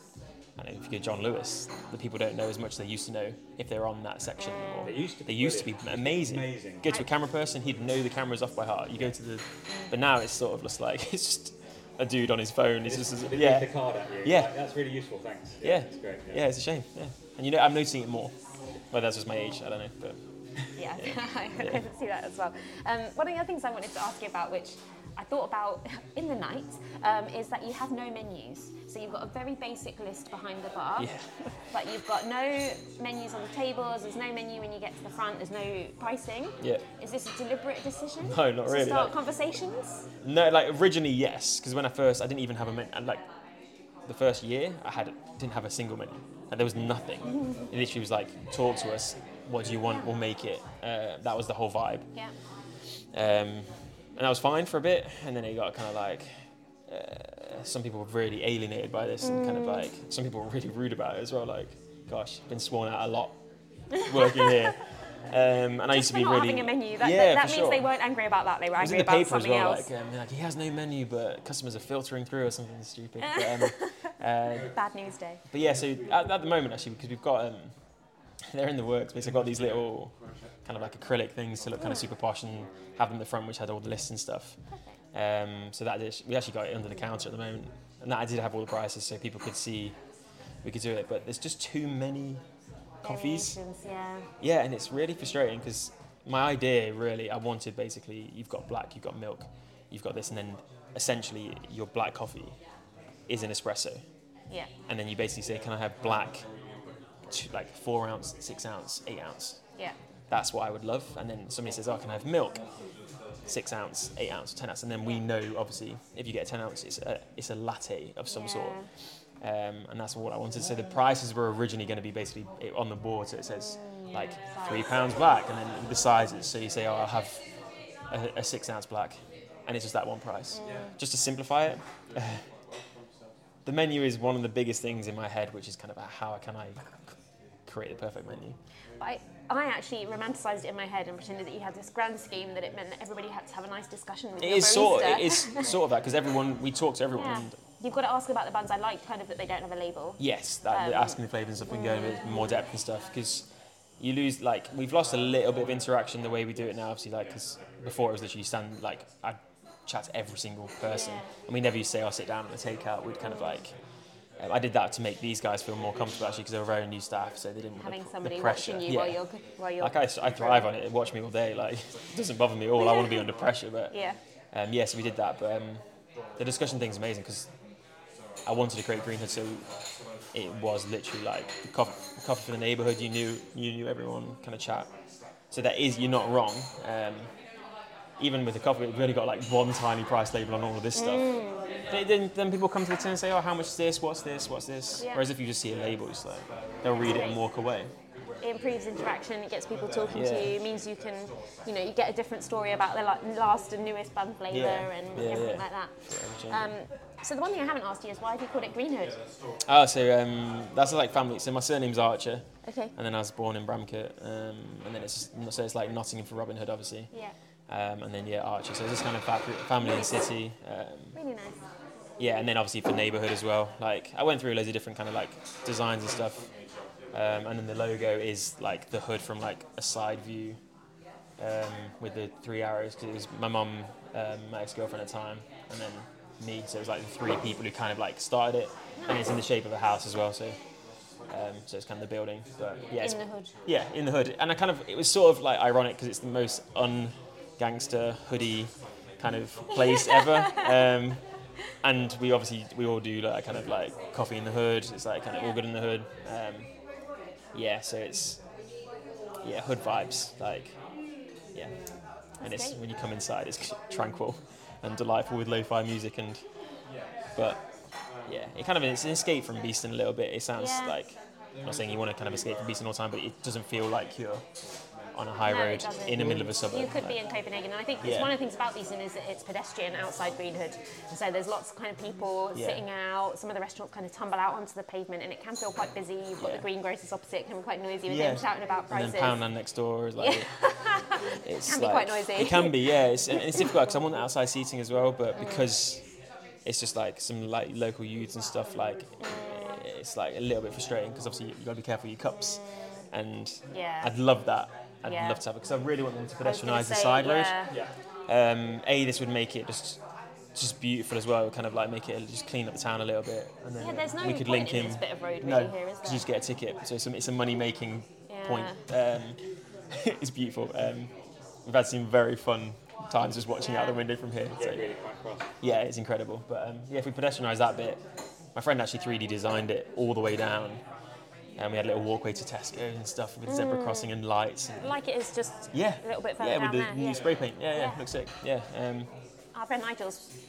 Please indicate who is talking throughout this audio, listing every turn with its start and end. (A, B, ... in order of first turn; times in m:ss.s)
0:00.6-0:14.5 A
0:04.4-0:04.9 B
0:04.8-0:06.9 C
0:12.8-0:16.4 C
0:15.6-0:18.3 A
0:18.9-0:20.2 A
0:20.8-0:31.1 B
0:21.6-0:21.8 A
0:31.0-0:31.5 A
0:31.7-0:40.0 B
0:38.2-0:39.1 A
0:40.2-0:43.2 A
0:44.0-0:52.1 A
0:53.1-0:56.3 A
0:56.9-1:03.3 A
0:59.2-0:59.9 B
1:04.0-1:07.9 A
1:05.9-1:09.9 B
1:08.8-1:14.7 A
1:13.2-1:14.0 B
1:14.6-1:15.4 B
1:15.5-1:17.7 A
1:18.4-1:24.6 A
1:25.1-1:30.0 A
1:30.6-1:32.4 A
1:33.0-1:33.6 A
1:33.0-1:34.3 B
1:34.4-1:42.6 A
1:43.3-1:44.0 A
1:44.9-1:46.4 A
1:47.3-1:49.6 A
1:50.3-1:52.6 A
1:53.5-1:58.8 A
1:58.3-1:58.9 B
1:59.4-2:07.4 A
2:03.7-2:04.9 B
2:08.1-2:12.4 A
2:10.5-2:10.9 B
2:13.6-2:17.1 A
2:17.6-2:18.6 A
2:19.0-2:25.6 B
2:24.4-2:27.6 A
2:27.1-2:32.5 B
2:30.2-2:33.5 A
2:34.0-2:43.7 A
2:40.9-2:41.3 B
2:43.2-2:43.5 B
2:44.4-2:49.2 A
2:47.8-2:50.6 B
2:49.8-2:53.9 A
2:52.8-2:53.1 B
2:53.9-2:54.2 B
2:54.5-2:55.8 A
2:56.4-2:57.5 A
2:58.4-2:59.7 A
3:00.3-3:04.9 A
3:05.5-3:07.3 A
3:08.2-3:11.3 A
3:10.9-3:11.6 B
3:11.9-3:17.9 A
3:15.0-3:15.2 B
3:17.0-3:17.4 B
3:18.4-3:25.9 B
3:20.1-3:20.5 A
3:24.5-3:26.7 A
3:26.5-3:29.2 B
3:29.6-3:37.1 A
3:32.6-3:32.9 B
3:37.7-3:41.2 A
3:39.8-3:40.3 B
3:41.1-3:41.6 B
3:42.2-3:46.5 A
3:47.1-3:50.6 A
3:51.4-4:00.6 A
3:59.0-3:59.4 B
4:01.3-4:11.2 A
4:03.0-4:03.5 B
4:09.7-4:10.7 B
4:11.8-4:16.7 A
4:15.3-4:15.6 B
4:17.5-4:18.4 A
4:19.4-4:20.7 A
4:22.4-4:22.8 B
4:22.4-4:26.4 A
4:27.4-4:27.6 A
4:28.2-4:34.4 A
4:30.5-4:31.0 B
4:35.1-4:37.2 A
4:35.4-4:49.4 B
4:38.0-4:38.3 A
4:42.5-4:42.8 A
4:48.1-4:50.5 A
4:50.2-4:52.9 B
4:51.4-4:56.0 A
4:55.4-4:55.7 B
4:56.6-5:02.6 A
4:59.2-4:59.8 B
5:03.1-5:07.5 A
5:03.7-5:04.1 B
5:05.0-5:05.4 B
5:06.4-5:07.7 B
5:08.3-5:10.0 A
5:10.5-5:19.4 A
5:13.8-5:16.2 B
5:18.3-5:18.8 B
5:19.9-5:21.1 A
5:21.6-5:24.9 A
5:23.5-5:24.0 B
5:24.5-5:25.5 C
5:25.6-5:28.0 A
5:28.5-5:30.8 A
5:31.6-5:34.9 A
5:33.5-5:34.1 B
5:34.8-5:38.0 B
5:35.7-5:39.1 A
5:39.5-5:40.2 B